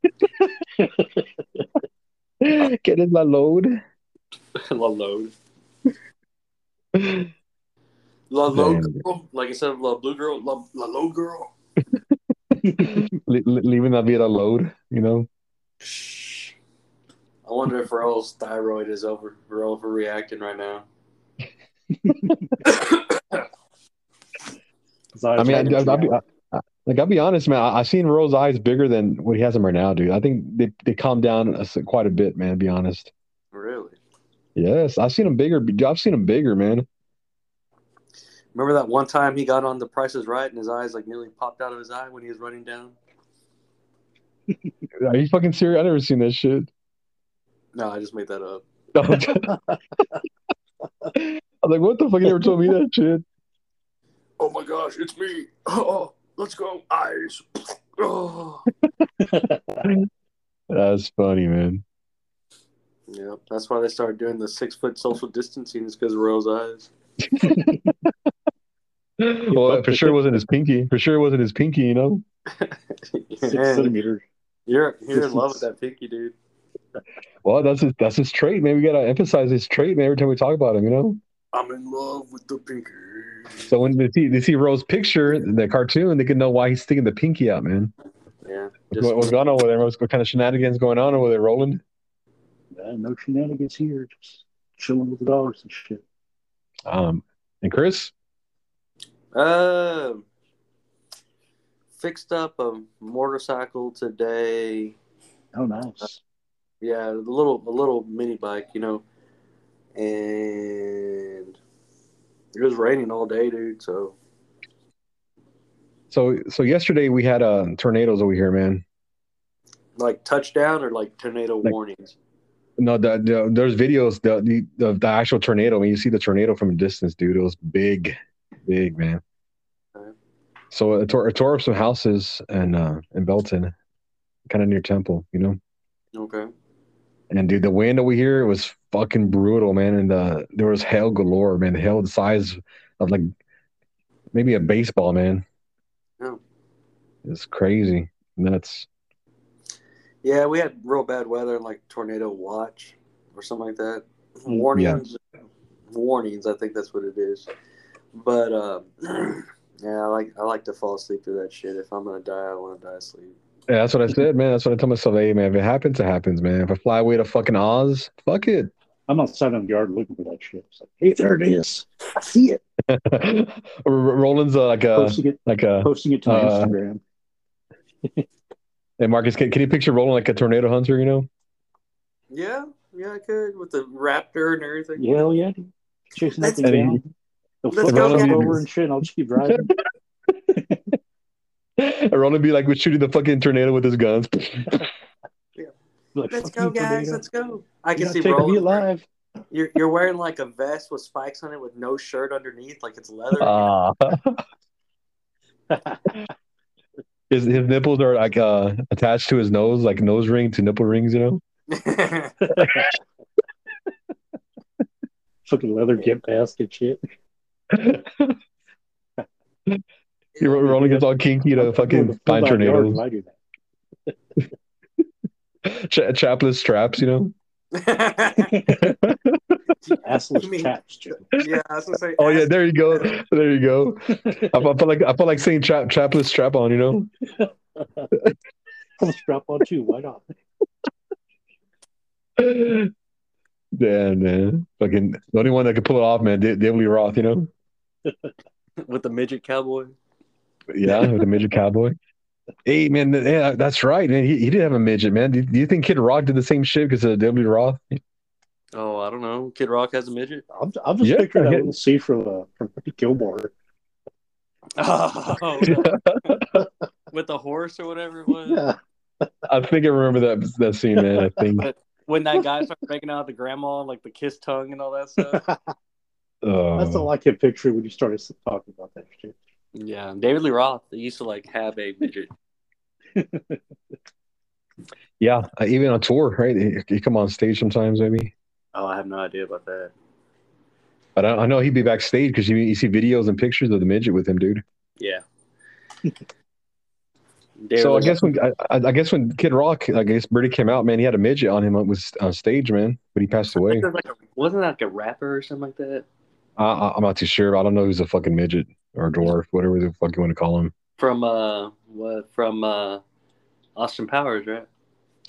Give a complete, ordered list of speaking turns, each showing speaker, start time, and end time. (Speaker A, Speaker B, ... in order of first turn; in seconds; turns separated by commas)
Speaker A: 0.8-1.7, Speaker B: 2.4-3.8, Speaker C: 4.5-5.3, Speaker B: 7.0-7.3, Speaker C: 8.3-11.5, Speaker B: 8.5-9.0, Speaker B: 12.5-15.3, Speaker C: 15.8-16.5, Speaker C: 17.4-20.9, Speaker C: 22.6-23.4, Speaker A: 25.1-26.2, Speaker B: 25.4-33.1, Speaker C: 33.5-34.0, Speaker B: 34.6-36.9, Speaker C: 38.5-43.0, Speaker B: 45.0-46.7, Speaker C: 47.8-48.6, Speaker B: 49.0-49.6, Speaker A: 49.5-49.8, Speaker B: 51.1-53.2, Speaker C: 54.4-58.7, Speaker A: 59.2-59.9, Speaker B: 60.7-61.8, Speaker C: 63.1-66.9, Speaker B: 67.3-67.9, Speaker A: 67.4-67.9, Speaker B: 69.2-72.2, Speaker A: 69.5-70.2, Speaker C: 72.5-73.9, Speaker A: 73.5-74.2, Speaker C: 74.7-76.3, Speaker A: 75.1-75.7, Speaker B: 77.5-81.2, Speaker C: 81.5-83.7, Speaker B: 83.7-87.9, Speaker C: 88.4-89.4, Speaker B: 88.9-91.8, Speaker A: 92.7-96.0, Speaker B: 96.9-98.1, Speaker C: 99.3-100.2, Speaker C: 101.9-105.0, Speaker A: 105.5-106.2, Speaker C: 106.8-109.0, Speaker C: 110.0-111.6, Speaker C: 112.5-114.2, Speaker B: 116.1-118.8, Speaker C: 120.0-122.2, Speaker B: 122.8-129.2, Speaker B: 130.7-133.7, Speaker B: 134.5-135.6, Speaker C: 136.1-136.5, Speaker B: 137.3-143.3, Speaker B: 144.3-145.4, Speaker B: 147.2-148.9, Speaker C: 150.2-155.2, Speaker B: 154.7-155.0, Speaker C: 155.9-157.5, Speaker C: 158.1-163.4, Speaker B: 163.7-168.7, Speaker A: 169.1-172.6, Speaker B: 172.9-176.8, Speaker A: 174.9-177.0, Speaker B: 179.0-181.3, Speaker C: 182.3-185.3, Speaker A: 185.0-187.0, Speaker C: 186.4-186.7, Speaker B: 186.6-187.0, Speaker A: 187.6-189.7, Speaker C: 187.7-188.6, Speaker B: 187.9-188.6, Speaker B: 189.4-189.8, Speaker A: 190.6-190.9, Speaker B: 191.8-194.8, Speaker A: 196.2-197.2, Speaker C: 196.3-198.8, Speaker A: 198.0-199.1, Speaker C: 199.5-203.7, Speaker B: 203.4-204.4, Speaker A: 205.7-206.3, Speaker B: 207.3-211.4, Speaker C: 211.7-212.5, Speaker A: 212.5-213.0, Speaker B: 212.6-212.8, Speaker A: 215.4-217.0, Speaker B: 217.7-218.4, Speaker C: 220.3-220.7, Speaker B: 220.4-223.0, Speaker A: 220.7-221.1, Speaker A: 221.6-223.4, Speaker B: 225.7-227.3, Speaker C: 227.8-228.6, Speaker A: 228.5-229.0, Speaker B: 228.8-229.6, Speaker A: 230.0-231.2, Speaker C: 230.4-233.1, Speaker B: 232.2-237.1, Speaker A: 237.4-238.1, Speaker A: 239.0-240.2, Speaker B: 242.4-242.9, Speaker B: 243.8-247.5, Speaker C: 248.8-249.9, Speaker B: 250.7-252.0, Speaker B: 252.7-258.0, Speaker C: 258.8-260.4, Speaker A: 260.5-263.5, Speaker B: 261.0-261.7, Speaker C: 264.8-266.4, Speaker B: 265.6-266.4, Speaker C: 267.1-268.6, Speaker A: 268.4-268.8, Speaker B: 269.5-271.7, Speaker A: 271.0-271.3, Speaker C: 271.6-275.4, Speaker B: 276.4-277.1, Speaker A: 276.8-279.4, Speaker C: 279.8-282.3, Speaker A: 283.1-283.6, Speaker B: 285.2-288.3, Speaker C: 288.7-289.9, Speaker B: 291.2-294.6, Speaker C: 295.0-295.2, Speaker C: 297.6-298.2, Speaker B: 297.8-303.9, Speaker C: 303.6-306.1, Speaker B: 306.6-310.7, Speaker C: 311.0-313.0, Speaker C: 313.8-314.7